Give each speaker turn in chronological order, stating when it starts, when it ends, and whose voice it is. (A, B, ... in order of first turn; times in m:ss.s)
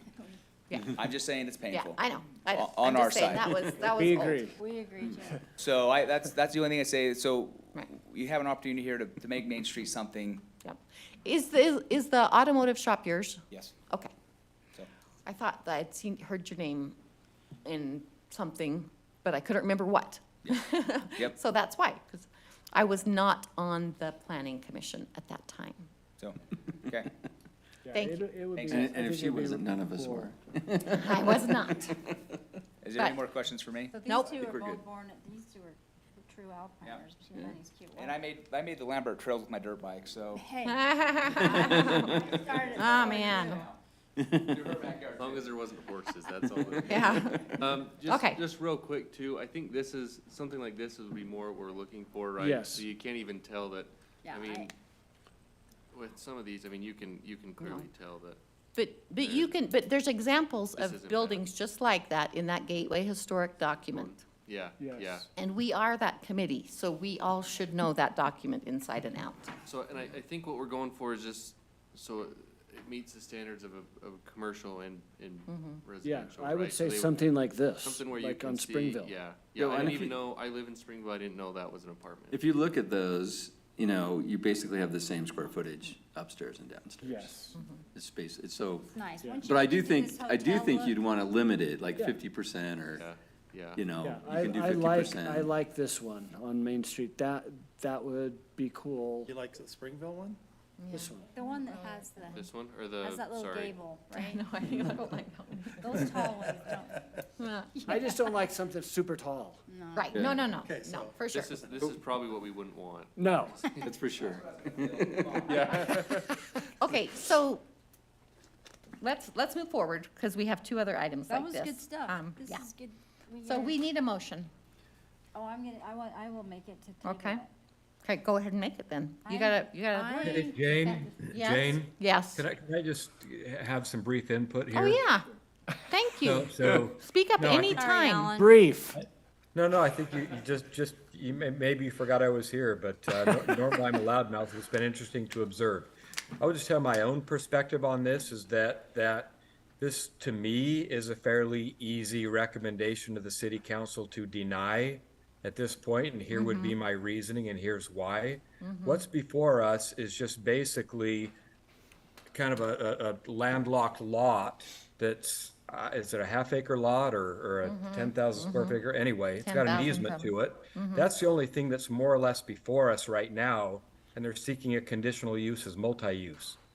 0:00.7-0:01.0 A
0:00.9-0:03.7 B
0:01.7-0:04.4 A
0:03.8-0:04.6 C
0:04.6-0:05.4 D
0:05.6-0:10.4 B
0:10.6-0:14.1 A
0:15.2-0:17.0 A
0:17.6-0:25.9 A
0:26.2-0:27.1 B
0:27.8-0:30.3 C
0:27.9-0:28.2 A
0:28.5-0:28.9 B
0:28.7-0:32.1 E
0:31.0-0:31.9 A
0:32.8-0:33.9 B
0:33.9-0:38.2 D
0:34.0-0:34.3 A
0:34.3-0:34.8 E
0:37.9-0:40.4 B
0:40.3-0:43.7 D
0:40.6-0:42.2 A
0:41.5-0:42.1 E
0:42.2-0:43.8 B
0:42.8-0:43.6 A
0:44.2-0:44.5 E
0:44.4-0:45.6 B
0:45.1-0:54.7 F
0:46.4-0:47.5 E
0:46.9-0:47.5 A
0:47.0-0:47.4 B
0:48.0-0:48.4 A
0:52.4-0:52.8 C
0:54.2-0:54.7 D
0:55.9-0:58.4 F
0:57.6-0:57.9 A
0:58.7-1:04.2 A
0:59.2-0:59.6 F
1:00.8-1:01.5 F
1:03.8-1:05.3 F
1:04.8-1:05.2 C
1:05.4-1:09.5 A
1:09.6-1:22.4 F
1:15.5-1:15.8 A
1:16.0-1:19.2 C
1:19.6-1:20.2 E
1:22.3-1:33.0 E
1:27.0-1:27.6 C
1:27.5-1:27.8 A
1:28.9-1:31.1 D
1:29.2-1:29.5 C
1:32.0-1:32.2 C
1:32.9-1:33.8 F
1:33.7-1:35.5 E
1:34.0-1:39.3 C
1:39.2-1:40.4 G
1:40.8-1:42.4 A
1:40.9-1:41.3 C
1:41.3-1:44.4 D
1:42.3-1:43.8 F
1:44.1-1:46.1 A
1:45.8-1:47.0 D
1:47.4-1:48.0 A
1:47.8-1:48.1 D
1:47.9-1:49.6 C
1:49.7-1:50.1 D
1:50.0-1:51.5 A
1:50.1-1:50.4 E
1:50.4-1:51.6 G
1:51.3-1:53.9 F
1:53.2-1:53.7 C
1:53.8-1:56.1 E
1:54.5-1:55.7 B
1:55.4-1:56.3 F
1:56.8-1:57.6 A
1:59.0-2:02.7 A
2:01.3-2:03.8 D
2:03.4-2:04.5 A
2:05.3-2:07.5 D
2:07.0-2:07.4 A
2:08.0-2:10.5 A
2:09.2-2:11.3 D
2:10.2-2:15.0 H
2:11.3-2:12.4 A
2:14.7-2:15.3 A
2:15.8-2:18.3 A
2:16.2-2:17.9 H
2:17.7-2:18.7 D
2:18.3-2:19.0 C
2:19.5-2:41.4 H
2:36.3-2:36.8 A
2:38.6-2:39.0 A
2:42.3-2:56.6 H
2:47.6-2:48.8 A
2:49.4-2:51.1 A